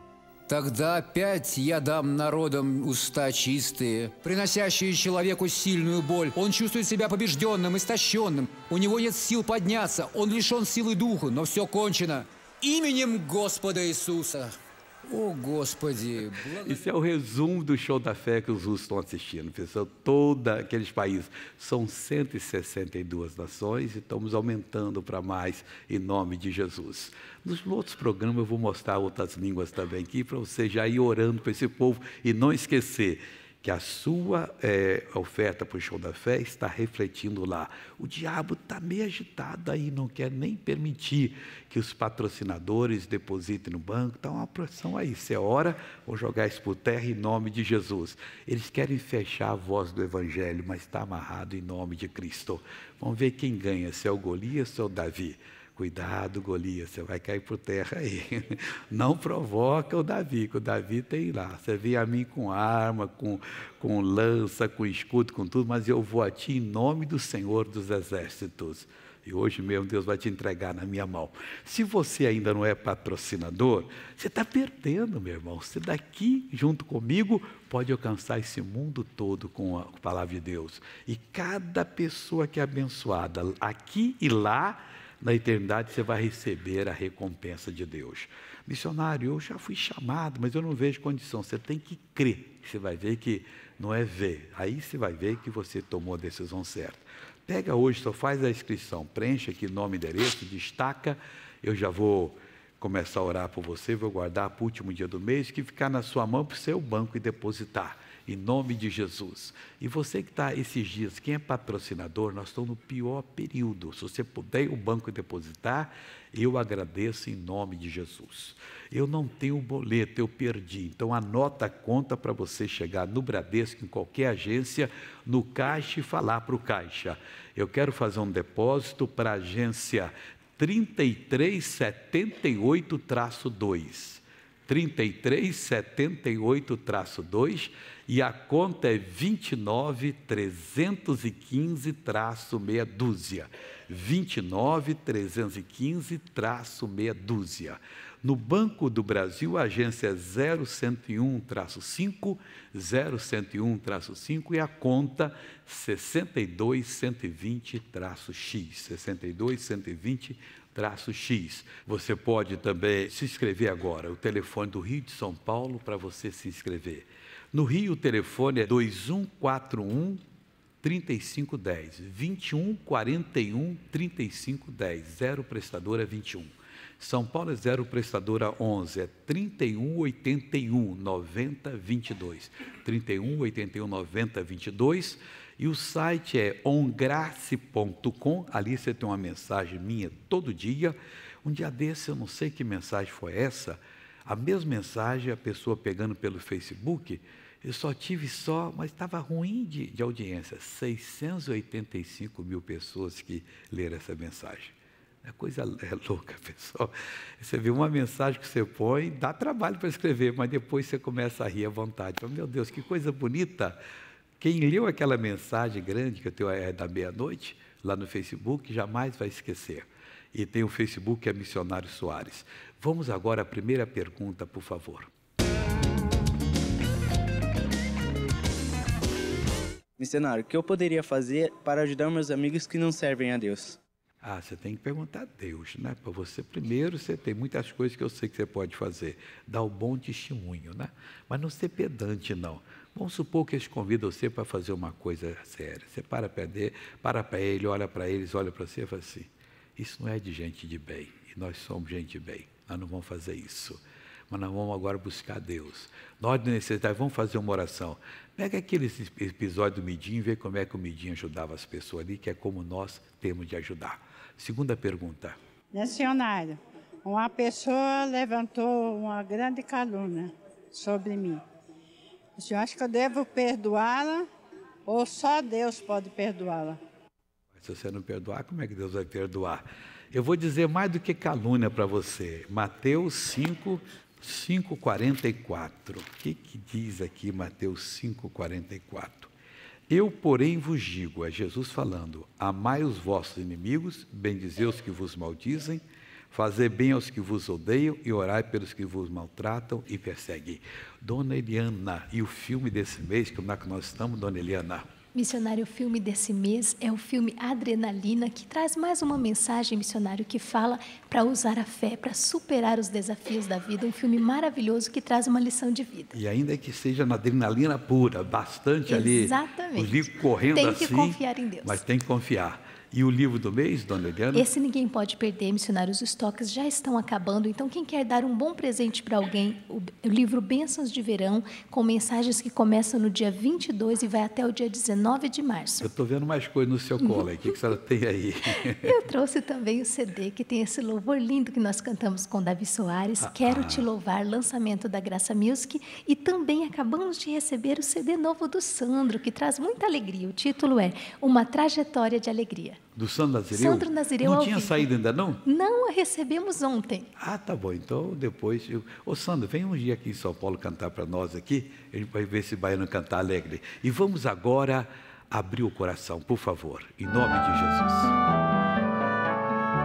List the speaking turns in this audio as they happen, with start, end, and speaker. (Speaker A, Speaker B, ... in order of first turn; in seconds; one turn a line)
Speaker A: 0.5-14.5
Speaker A: 15.1-16.9
Speaker B: 16.6-170.2
Speaker B: 170.8-213.8
Speaker B: 214.4-225.1
Speaker C: 230.0-233.8
Speaker B: 234.2-265.4
Speaker D: 265.7-271.4
Speaker D: 272.4-274.3
Speaker D: 274.9-276.8
Speaker B: 277.6-289.3
Speaker B: 289.9-304.9
Speaker E: 305.1-316.1
Speaker B: 316.1-324.5
Speaker E: 318.9-321.8
Speaker E: 324.3-335.9
Speaker B: 335.8-338.9
Speaker E: 337.0-337.2
Speaker E: 338.8-352.8
Speaker B: 343.2-343.9
Speaker B: 352.9-355.4
Speaker E: 353.5-354.9
Speaker E: 355.4-357.1
Speaker B: 357.2-368.1